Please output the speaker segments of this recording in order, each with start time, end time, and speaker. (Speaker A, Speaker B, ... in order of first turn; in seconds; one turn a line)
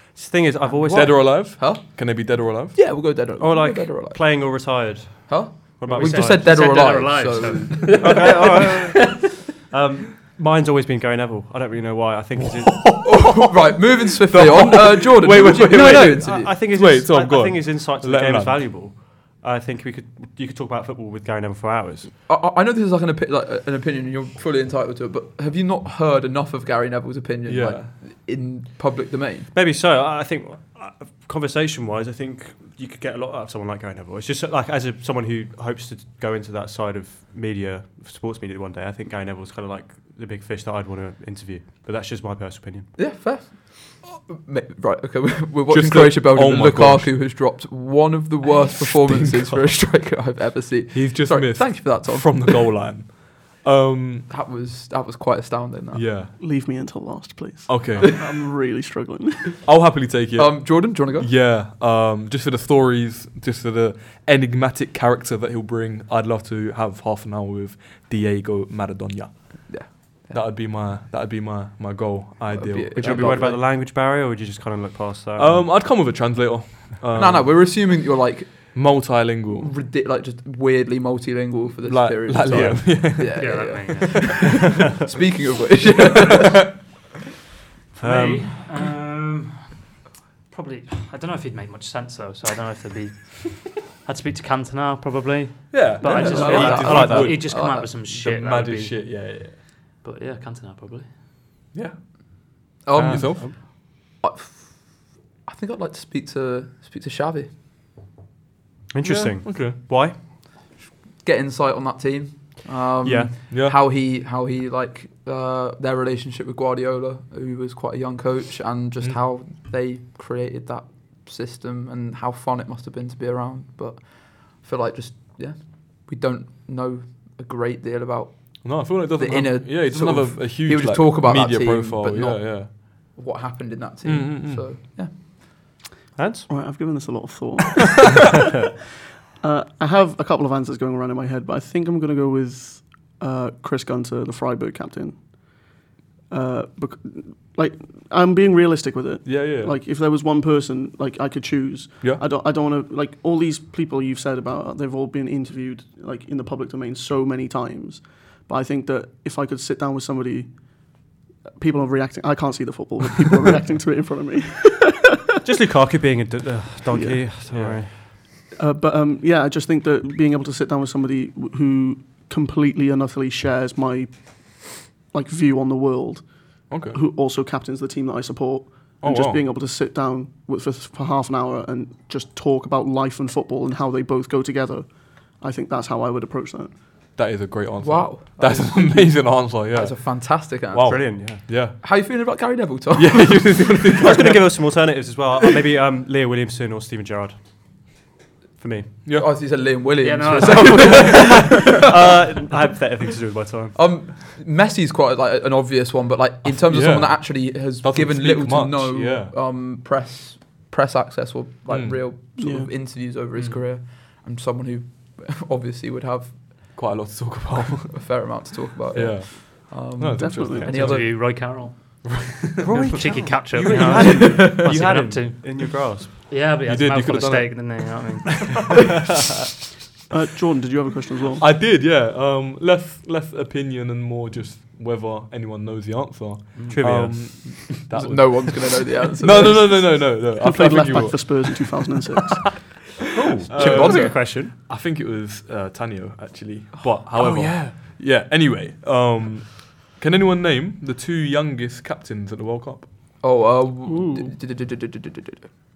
Speaker A: 0.1-1.3
Speaker B: 0.6-8.7
Speaker C: 0.9-3.0
Speaker A: 3.4-6.7
Speaker D: 5.9-8.4
Speaker A: 7.9-13.1
Speaker C: 12.7-13.5
Speaker B: 13.0-16.6
Speaker C: 14.3-18.8
Speaker A: 14.5-22.1
Speaker B: 22.3-29.5
Speaker C: 27.5-28.0
Speaker A: 29.5-42.9
Speaker B: 43.0-52.7
Speaker C: 45.7-47.2
Speaker C: 49.1-49.6
Speaker C: 50.9-54.3
Speaker B: 54.3-56.1
Speaker C: 55.9-56.4
Speaker E: 56.4-59.6
Speaker C: 57.7-58.3
Speaker C: 59.6-73.4
Speaker B: 60.4-61.3
Speaker B: 69.7-70.4
Speaker B: 72.5-73.6
Speaker A: 73.0-75.7
Speaker C: 75.4-77.8
Speaker B: 77.2-78.8
Speaker C: 78.7-79.8
Speaker B: 79.6-86.7
Speaker C: 81.8-84.5
Speaker A: 82.4-83.0
Speaker D: 83.2-84.6
Speaker C: 86.0-86.7
Speaker A: 88.0-88.6
Speaker D: 88.0-89.8
Speaker D: 90.5-101.1
Speaker C: 95.7-99.6
Speaker B: 96.1-97.9
Speaker A: 96.1-97.4
Speaker C: 101.7-102.0
Speaker B: 102.8-107.5
Speaker A: 103.0-103.5
Speaker C: 103.0-103.5
Speaker A: 108.9-110.2
Speaker E: 109.0-109.3
Speaker C: 109.3-109.8
Speaker B: 111.2-135.1
Speaker A: 113.0-113.3
Speaker C: 113.5-113.8
Speaker C: 128.6-132.8
Speaker C: 134.0-134.8
Speaker A: 136.2-136.5
Speaker E: 136.5-138.4
Speaker C: 137.9-138.3
Speaker E: 139.4-145.7
Speaker E: 146.3-160.5
Speaker C: 149.2-149.8
Speaker E: 161.6-165.2
Speaker A: 165.4-167.9
Speaker E: 166.9-167.3
Speaker C: 167.5-167.8
Speaker E: 168.6-186.8
Speaker C: 176.7-177.0
Speaker C: 179.0-179.4
Speaker C: 187.2-191.8
Speaker B: 187.8-194.1
Speaker A: 190.8-191.4
Speaker C: 192.9-194.5
Speaker A: 194.0-197.4
Speaker A: 198.6-198.9
Speaker C: 199.1-199.4
Speaker B: 199.1-202.2
Speaker D: 200.0-201.4
Speaker A: 200.7-204.0
Speaker B: 203.7-216.8
Speaker C: 206.6-209.3
Speaker C: 211.7-212.2
Speaker E: 212.4-212.7
Speaker C: 216.7-218.2
Speaker B: 217.9-221.1
Speaker C: 218.9-223.0
Speaker E: 220.2-220.7
Speaker D: 220.6-222.0
Speaker A: 222.6-226.1
Speaker D: 222.7-228.9
Speaker C: 223.6-224.1
Speaker B: 224.0-224.7
Speaker C: 226.6-227.9
Speaker E: 230.1-231.4
Speaker C: 231.4-241.8
Speaker D: 236.6-236.8
Speaker A: 236.7-238.1
Speaker B: 237.7-240.1
Speaker E: 240.3-242.6
Speaker C: 242.4-253.1
Speaker A: 243.1-244.5
Speaker B: 243.6-244.3
Speaker A: 247.2-247.7
Speaker B: 253.2-255.5
Speaker E: 253.9-254.3